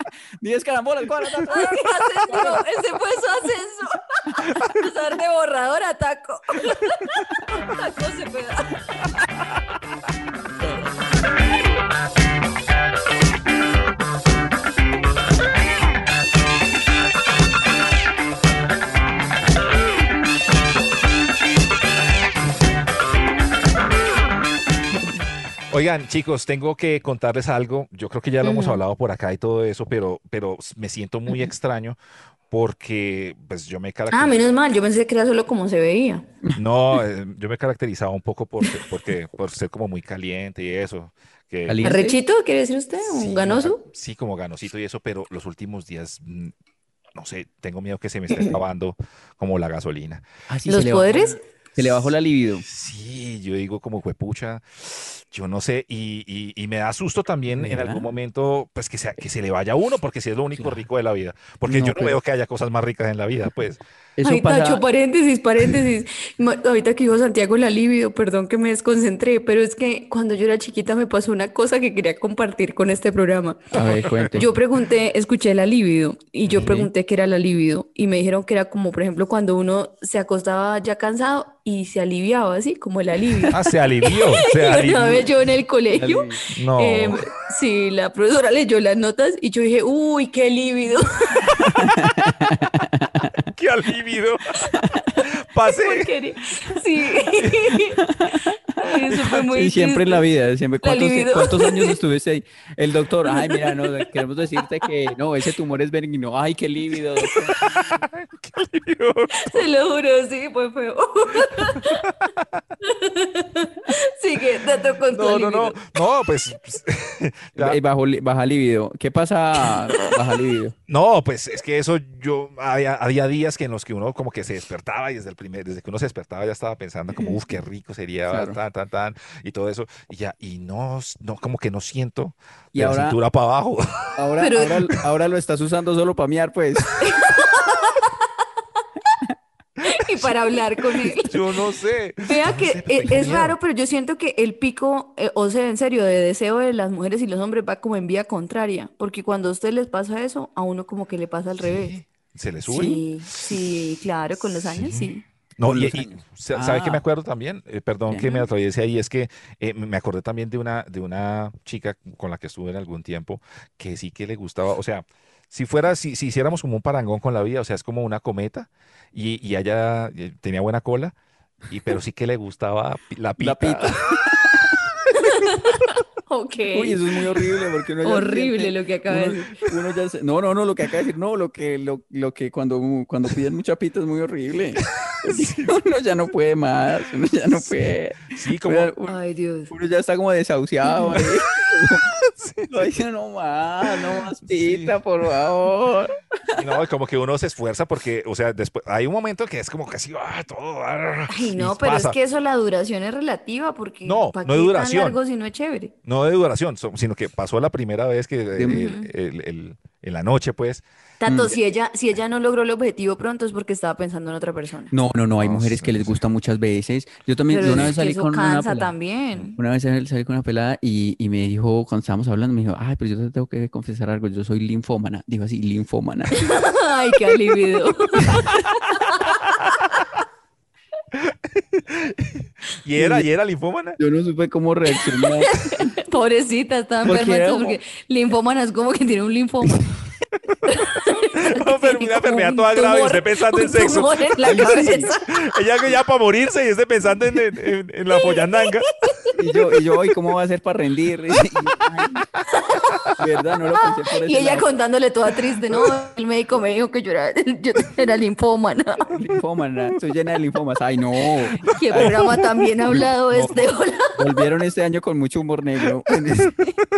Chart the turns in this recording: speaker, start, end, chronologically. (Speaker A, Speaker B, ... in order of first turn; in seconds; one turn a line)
Speaker A: 0.4-2.6
Speaker B: 1.4-8.8
Speaker A: 4.3-4.6
Speaker C: 25.7-32.0
Speaker B: 28.4-28.8
Speaker C: 32.5-34.4
Speaker B: 34.1-36.3
Speaker C: 36.5-41.9
Speaker A: 41.7-42.2
Speaker B: 41.8-43.8
Speaker C: 43.1-46.5
Speaker C: 47.1-50.2
Speaker A: 50.5-52.6
Speaker B: 50.7-51.4
Speaker C: 52.7-63.8
Speaker A: 57.5-58.1
Speaker A: 60.5-60.9
Speaker A: 61.7-62.2
Speaker A: 64.2-64.8
Speaker B: 64.2-73.6
Speaker A: 73.7-74.5
Speaker B: 74.3-91.5
Speaker C: 76.5-76.9
Speaker C: 83.5-85.3
Speaker A: 85.9-86.4
Speaker C: 86.5-87.2
Speaker A: 91.6-93.4
Speaker C: 93.5-96.1
Speaker B: 95.7-98.0
Speaker A: 97.8-108.0
Speaker B: 98.8-100.2
Speaker B: 100.8-102.0
Speaker B: 103.3-103.8
Speaker C: 107.6-109.7
Speaker B: 109.3-112.0
Speaker C: 111.6-112.4
Speaker B: 112.8-115.8
Speaker C: 115.1-117.8
Speaker A: 117.6-120.8
Speaker C: 120.9-134.1
Speaker A: 128.3-128.6
Speaker A: 132.7-133.2
Speaker A: 134.2-137.1
Speaker B: 134.4-134.8
Speaker B: 137.0-138.1
Speaker B: 139.8-141.3
Speaker C: 141.2-143.6
Speaker B: 142.2-152.0
Speaker C: 151.6-153.5
Speaker A: 152.7-153.0
Speaker B: 152.7-155.2
Speaker C: 154.7-171.1
Speaker A: 155.7-157.0
Speaker C: 171.7-174.0
Speaker A: 173.4-174.8
Speaker B: 175.2-177.0
Speaker A: 176.7-189.2
Speaker B: 178.0-179.5
Speaker C: 185.2-185.7
Speaker C: 188.3-188.9
Speaker B: 189.1-189.7
Speaker A: 189.7-192.1
Speaker C: 192.3-192.9
Speaker A: 192.7-196.8
Speaker C: 194.4-195.0
Speaker C: 196.6-202.2
Speaker B: 201.3-205.9
Speaker C: 204.1-205.2
Speaker C: 206.1-210.8
Speaker A: 208.6-208.9
Speaker B: 208.7-209.1
Speaker B: 211.2-214.9
Speaker A: 211.3-211.6
Speaker A: 214.9-218.9
Speaker C: 215.4-216.2
Speaker B: 217.5-219.6
Speaker C: 217.7-217.9
Speaker A: 219.6-226.5
Speaker B: 226.3-229.7
Speaker C: 231.2-234.0
Speaker A: 233.0-233.3
Speaker A: 234.0-235.7
Speaker B: 235.4-239.8
Speaker A: 237.1-237.8
Speaker B: 240.7-245.4
Speaker C: 241.3-244.7
Speaker A: 244.4-245.1
Speaker C: 245.3-248.9
Speaker B: 248.2-249.3
Speaker A: 249.3-252.2
Speaker B: 252.6-253.1
Speaker A: 253.2-254.7
Speaker B: 254.1-259.1
Speaker A: 259.1-262.3
Speaker C: 261.7-263.6
Speaker B: 261.7-264.2
Speaker A: 264.1-266.6